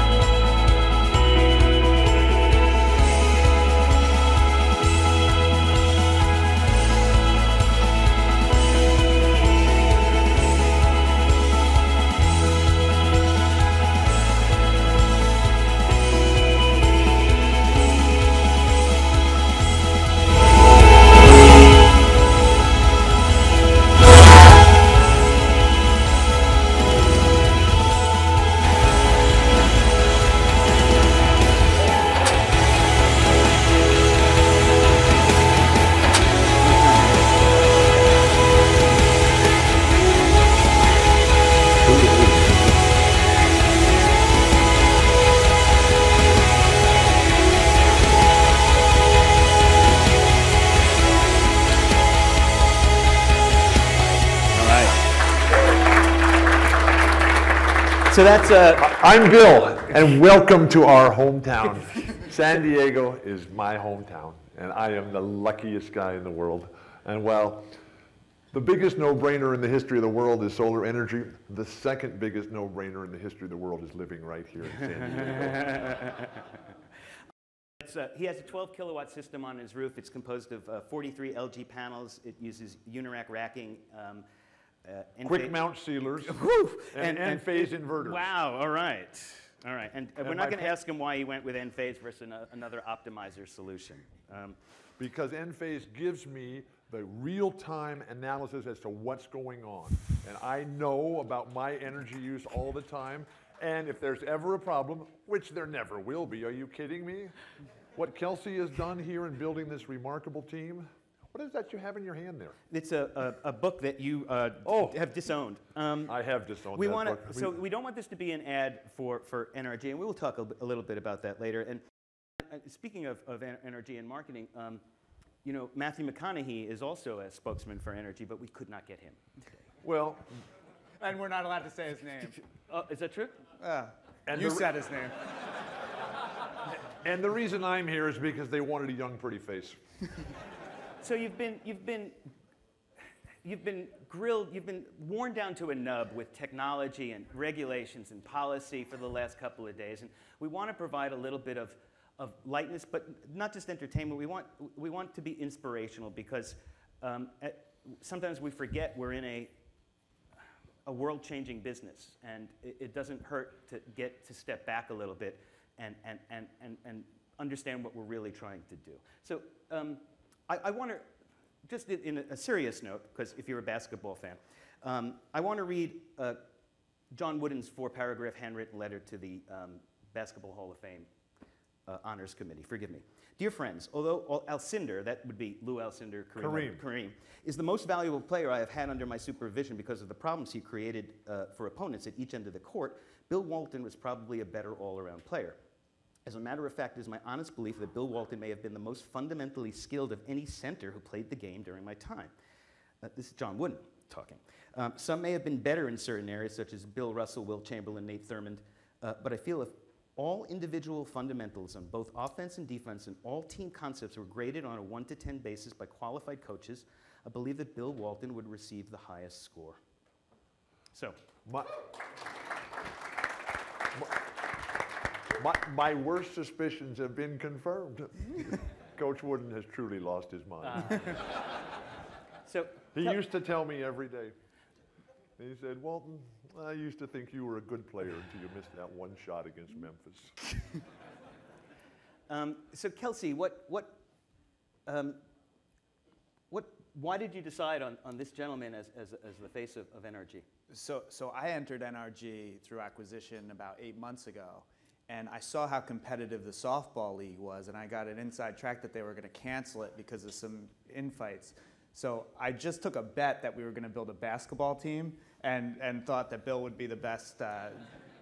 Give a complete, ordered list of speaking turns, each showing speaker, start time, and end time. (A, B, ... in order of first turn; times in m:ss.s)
0:42.0-0:42.4 A
0:54.5-0:55.0 B
0:58.1-0:58.9 B
0:58.8-1:07.7 A
1:08.5-1:16.0 A
1:15.6-1:16.4 B
1:17.8-1:24.2 B
1:24.8-1:25.6 B
1:25.2-1:28.3 A
1:26.2-1:34.6 B
1:30.2-1:30.7 A
1:35.0-1:47.3 A
1:47.9-1:52.6 A
1:52.7-1:56.2 B
1:54.6-1:55.0 A
1:56.1-1:57.6 A
1:56.7-2:01.8 B
2:02.4-2:04.8 B
2:05.4-2:09.2 B
2:09.8-2:10.4 A
2:11.0-2:12.4 C
2:12.6-2:13.4 B
2:13.6-2:15.2 C
2:14.2-2:14.8 A
2:16.9-2:19.8 A
2:21.0-2:22.3 B
2:23.4-2:39.5 B
2:40.8-2:51.1 B
2:51.7-2:56.4 B
2:57.1-3:01.1 B
3:01.9-3:15.6 B
3:06.4-3:06.8 A
3:16.2-3:22.3 B
3:23.0-3:39.8 B
3:40.9-3:41.2 B
3:41.4-3:41.7 A
3:43.9-3:44.2 A
3:45.3-3:51.2 A
3:50.6-3:51.2 B
3:52.4-3:53.2 B
3:52.9-3:54.3 A
3:55.4-4:00.4 A
4:02.3-4:04.0 B
4:04.8-4:05.2 B
4:06.5-4:10.4 B
4:10.7-4:27.9 C